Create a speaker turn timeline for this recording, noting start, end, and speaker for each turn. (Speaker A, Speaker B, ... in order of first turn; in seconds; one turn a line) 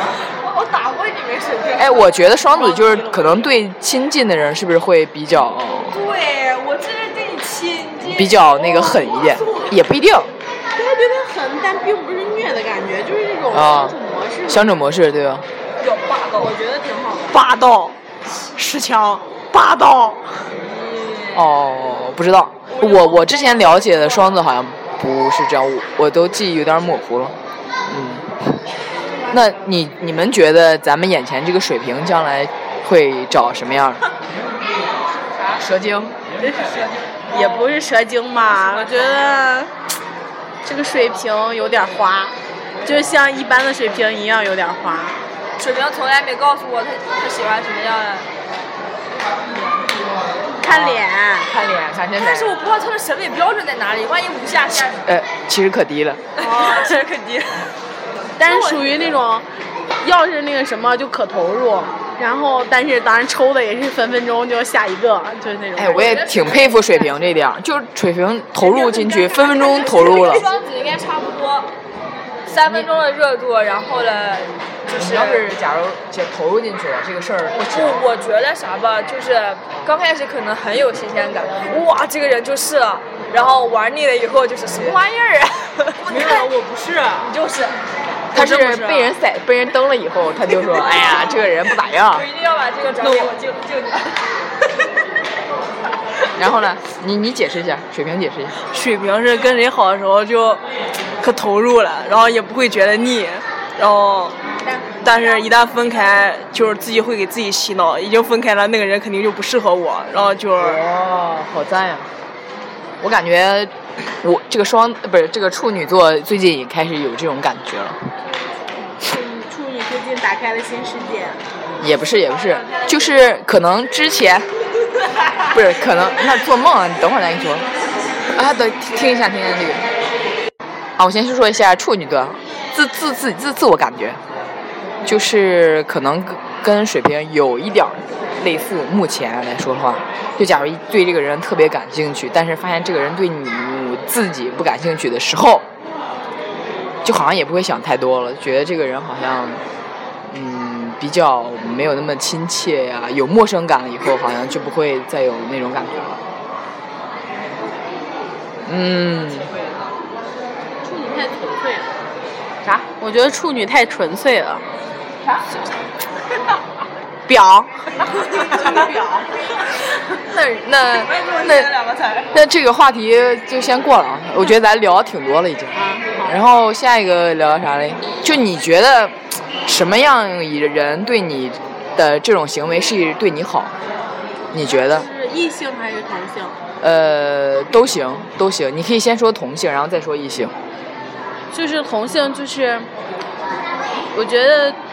Speaker A: 0.2-3.3
Speaker B: 1.8-6.0
Speaker A: 5.9-9.7
Speaker B: 8.0-10.3
Speaker C: 10.7-14.7
Speaker B: 13.5-15.4
Speaker A: 15.8-16.6
Speaker C: 16.4-17.4
Speaker D: 17.3-17.9
Speaker D: 18.5-20.4
Speaker A: 20.6-21.5
Speaker B: 21.3-27.3
Speaker A: 22.7-24.2
Speaker B: 27.9-28.6
Speaker B: 29.3-34.0
Speaker B: 35.6-36.1
Speaker A: 36.4-37.8
Speaker C: 37.3-39.7
Speaker A: 38.5-39.4
Speaker C: 40.6-45.2
Speaker A: 45.6-48.3
Speaker A: 49.5-49.9
Speaker C: 50.6-51.5
Speaker B: 50.6-52.6
Speaker A: 52.2-55.0
Speaker B: 55.0-56.2
Speaker A: 56.4-57.7
Speaker C: 56.4-57.0
Speaker C: 58.4-59.5
Speaker A: 58.4-58.8
Speaker C: 60.0-66.8
Speaker B: 65.7-70.5
Speaker A: 69.0-71.7
Speaker C: 69.2-70.2
Speaker A: 72.5-75.5
Speaker B: 75.0-78.1
Speaker A: 77.6-86.5
Speaker B: 84.7-85.0
Speaker D: 86.0-87.3
Speaker A: 87.2-87.8
Speaker B: 88.3-92.3
Speaker D: 88.3-89.0
Speaker A: 88.4-89.0
Speaker A: 90.6-91.4
Speaker A: 92.0-94.2
Speaker D: 93.0-93.3
Speaker B: 96.4-98.5
Speaker D: 98.7-100.6
Speaker D: 101.2-104.3
Speaker C: 104.7-105.1
Speaker D: 105.0-110.8
Speaker B: 110.6-112.1
Speaker B: 113.0-118.0
Speaker C: 119.0-121.4
Speaker B: 121.8-124.5
Speaker B: 125.5-127.7
Speaker B: 128.3-129.8
Speaker B: 131.0-134.2
Speaker B: 135.0-145.7
Speaker B: 147.0-149.6
Speaker B: 150.3-156.2
Speaker B: 158.7-159.5
Speaker C: 160.8-161.9
Speaker C: 163.0-164.6
Speaker C: 167.3-169.3
Speaker B: 170.3-171.7
Speaker A: 170.9-172.3
Speaker B: 172.3-183.7
Speaker C: 175.7-176.3
Speaker B: 184.5-185.1
Speaker C: 184.7-186.6
Speaker B: 186.8-190.5
Speaker C: 191.5-192.9
Speaker C: 194.1-194.8